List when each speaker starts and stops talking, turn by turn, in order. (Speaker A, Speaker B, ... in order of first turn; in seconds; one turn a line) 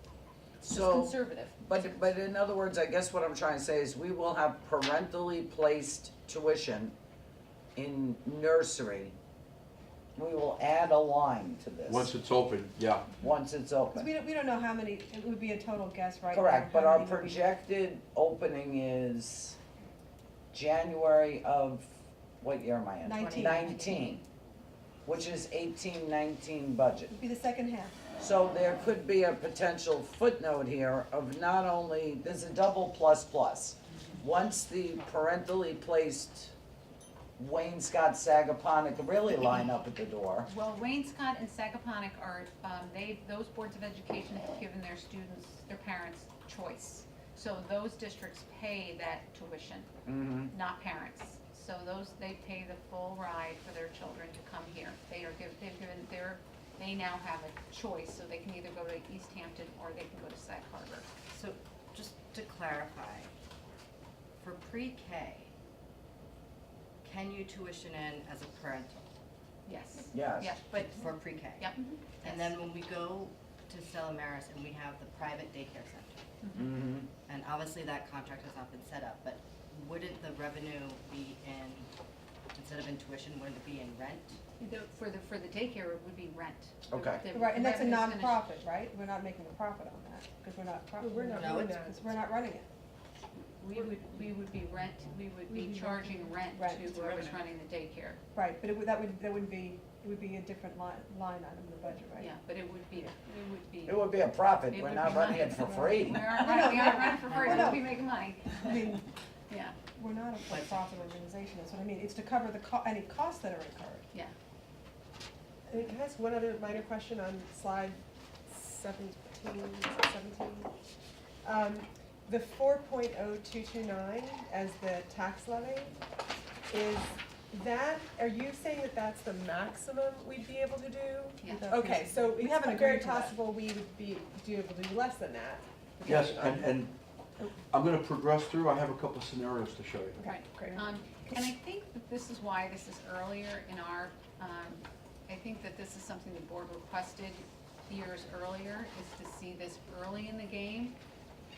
Speaker A: 0.6-6.9
Speaker B: 0.6-2.1
Speaker A: 7.7-9.1
Speaker A: 10.2-12.1
Speaker C: 11.9-13.2
Speaker A: 13.2-14.1
Speaker D: 13.9-17.5
Speaker A: 16.3-19.6
Speaker A: 20.5-24.2
Speaker D: 23.0-23.8
Speaker B: 23.8-24.1
Speaker A: 25.1-27.1
Speaker D: 27.1-28.0
Speaker A: 28.2-36.5
Speaker A: 37.4-40.5
Speaker B: 40.5-49.9
Speaker A: 50.0-50.5
Speaker B: 50.5-61.1
Speaker E: 61.3-63.3
Speaker E: 64.4-65.5
Speaker E: 67.0-69.1
Speaker B: 69.6-72.6
Speaker A: 70.1-70.5
Speaker E: 70.7-76.2
Speaker B: 76.4-76.7
Speaker A: 76.6-77.1
Speaker E: 77.2-81.9
Speaker E: 82.5-84.4
Speaker B: 84.6-88.4
Speaker A: 86.9-87.2
Speaker D: 87.2-92.7
Speaker F: 91.0-92.1
Speaker E: 91.3-91.7
Speaker B: 93.6-98.2
Speaker F: 95.5-97.4
Speaker D: 98.3-102.3
Speaker B: 102.2-104.1
Speaker A: 103.8-106.3
Speaker B: 104.7-108.9
Speaker D: 105.6-107.8
Speaker D: 108.6-109.0
Speaker B: 109.5-109.8
Speaker D: 109.9-114.0
Speaker E: 110.5-111.1
Speaker F: 115.7-120.7
Speaker F: 121.4-126.0
Speaker F: 126.7-136.7
Speaker B: 131.4-131.7
Speaker D: 131.5-133.3
Speaker C: 136.0-136.9
Speaker C: 137.7-140.2
Speaker D: 140.2-141.4
Speaker B: 140.2-150.9
Speaker F: 140.3-140.8